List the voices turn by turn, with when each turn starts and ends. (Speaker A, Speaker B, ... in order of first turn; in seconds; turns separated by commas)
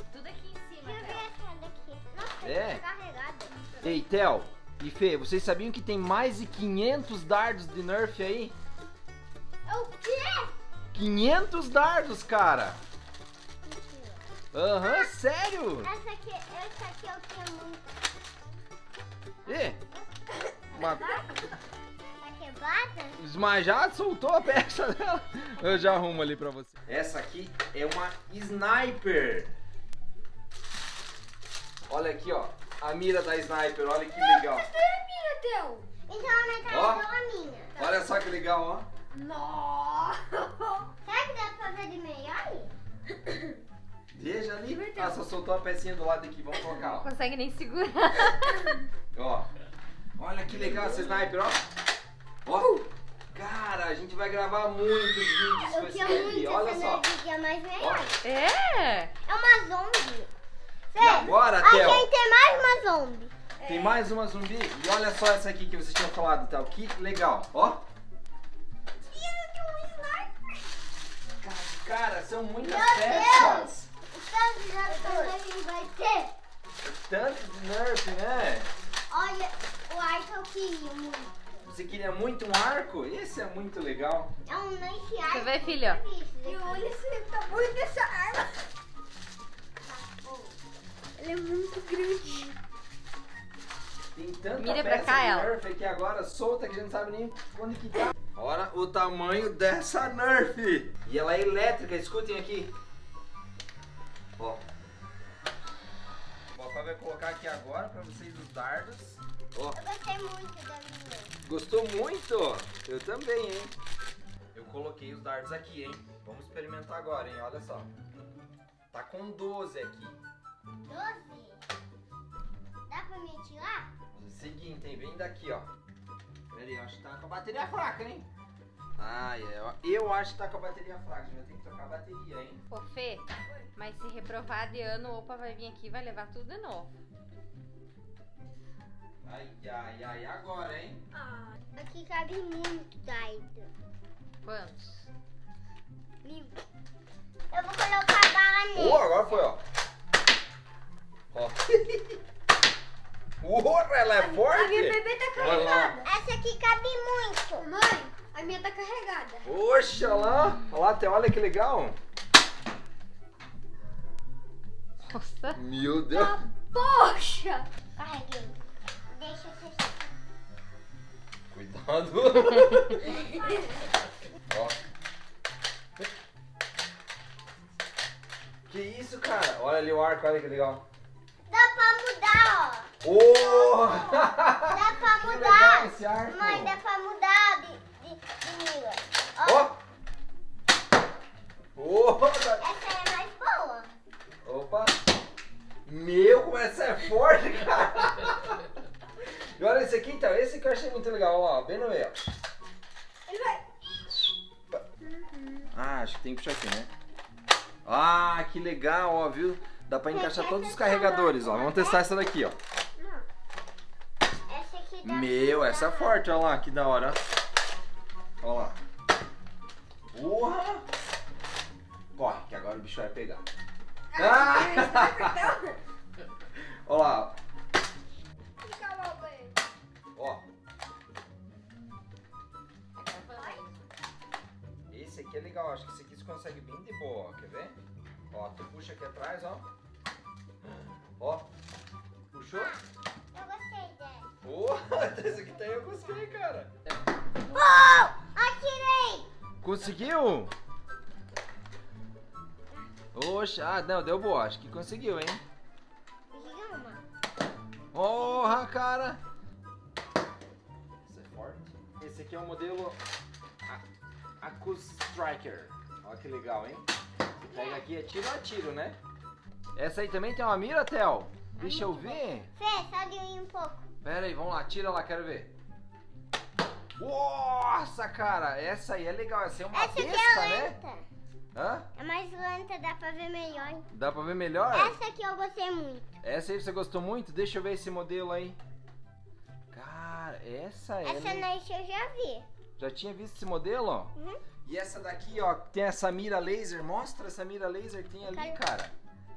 Speaker A: 0.1-1.3, Speaker B: 0.8-3.5, Speaker C: 2.4-2.8, Speaker D: 3.5-4.0, Speaker C: 3.8-8.5, Speaker D: 9.7-10.6, Speaker C: 10.9-12.8, Speaker B: 13.6-15.1, Speaker C: 14.5-15.9, Speaker B: 15.8-17.9, Speaker C: 19.5-19.8, Speaker C: 20.7-21.1, Speaker D: 20.7-21.3, Speaker B: 20.8-21.2, Speaker B: 22.2-23.2, Speaker C: 23.2-29.5, Speaker C: 31.9-34.7, Speaker D: 34.2-35.9, Speaker B: 36.1-37.8, Speaker C: 36.7-37.1, Speaker D: 37.8-38.0, Speaker C: 37.8-38.9, Speaker D: 39.1-40.9, Speaker B: 41.0-42.7, Speaker C: 44.1-47.1, Speaker D: 44.7-45.2, Speaker A: 46.9-48.8, Speaker C: 49.1-49.5, Speaker C: 50.2-51.6, Speaker C: 52.5-52.8, Speaker D: 52.6-52.8, Speaker C: 53.3-57.1, Speaker B: 55.7-58.2, Speaker C: 57.8-58.1, Speaker A: 58.2-59.1, Speaker B: 59.3-60.3, Speaker B: 60.9-63.3, Speaker C: 61.0-62.1, Speaker D: 63.6-64.0, Speaker C: 63.6-67.8, Speaker D: 69.1-70.3, Speaker C: 71.4-73.9, Speaker B: 72.6-76.3, Speaker D: 74.8-75.4, Speaker C: 76.8-78.7, Speaker B: 79.1-81.7, Speaker C: 81.7-84.3, Speaker B: 84.5-86.9, Speaker A: 85.3-86.0, Speaker D: 86.4-88.7, Speaker B: 90.1-90.5, Speaker D: 91.2-92.5, Speaker C: 94.1-102.7, Speaker A: 94.6-95.5, Speaker C: 104.4-104.6, Speaker C: 106.5-109.8, Speaker B: 109.7-111.3, Speaker C: 111.4-113.7, Speaker C: 114.5-117.9, Speaker C: 118.9-120.2, Speaker B: 120.8-121.6, Speaker B: 122.9-123.9, Speaker C: 124.1-125.7, Speaker C: 126.5-128.3, Speaker C: 129.0-132.6, Speaker A: 132.7-136.9, Speaker C: 139.2-141.0, Speaker D: 141.1-141.5, Speaker B: 141.7-143.7, Speaker A: 144.4-145.1, Speaker B: 146.2-146.6, Speaker B: 147.5-149.1, Speaker C: 148.7-149.6, Speaker C: 151.3-152.2, Speaker C: 153.4-156.0, Speaker D: 154.1-156.0, Speaker B: 156.0-157.7, Speaker D: 157.6-159.5, Speaker C: 159.4-162.0, Speaker A: 165.1-165.6, Speaker C: 165.5-166.4, Speaker D: 166.1-167.7, Speaker B: 168.0-170.1, Speaker C: 171.5-173.2, Speaker C: 174.5-174.8, Speaker C: 178.7-180.8, Speaker B: 181.5-189.7, Speaker C: 183.0-186.8, Speaker C: 189.4-189.8, Speaker C: 191.8-192.6, Speaker B: 192.6-193.9, Speaker C: 194.4-195.0, Speaker C: 195.9-198.6, Speaker C: 199.6-202.2, Speaker D: 203.3-203.6, Speaker D: 205.0-205.7, Speaker C: 205.7-206.9, Speaker C: 207.8-212.6, Speaker B: 210.1-212.1, Speaker D: 213.0-213.2, Speaker B: 214.5-216.2, Speaker C: 215.0-217.2, Speaker C: 218.4-218.8, Speaker C: 220.1-220.8, Speaker C: 222.2-223.4, Speaker D: 224.1-225.8, Speaker C: 224.2-225.4, Speaker C: 226.6-227.3, Speaker D: 228.6-229.6, Speaker C: 230.2-230.4, Speaker A: 233.0-233.9, Speaker D: 233.4-233.6, Speaker C: 234.9-237.8, Speaker C: 238.3-239.7, Speaker C: 241.2-241.5, Speaker C: 242.3-242.8, Speaker B: 242.5-244.3, Speaker C: 244.4-246.8, Speaker B: 247.5-249.3, Speaker C: 249.6-250.5, Speaker C: 253.1-255.4, Speaker B: 256.3-257.0, Speaker C: 257.9-259.2, Speaker C: 261.1-263.0, Speaker C: 264.4-266.8, Speaker B: 267.5-267.9, Speaker C: 267.5-269.0, Speaker C: 269.8-272.5, Speaker B: 271.6-273.9, Speaker C: 274.0-275.5, Speaker C: 277.0-280.8, Speaker B: 279.7-281.1, Speaker C: 281.5-281.9, Speaker B: 281.9-283.9, Speaker C: 283.9-284.9, Speaker B: 284.7-286.1, Speaker C: 286.2-288.6, Speaker C: 289.7-291.5, Speaker B: 291.0-292.5, Speaker C: 292.8-298.9, Speaker B: 294.2-294.4, Speaker B: 298.3-298.6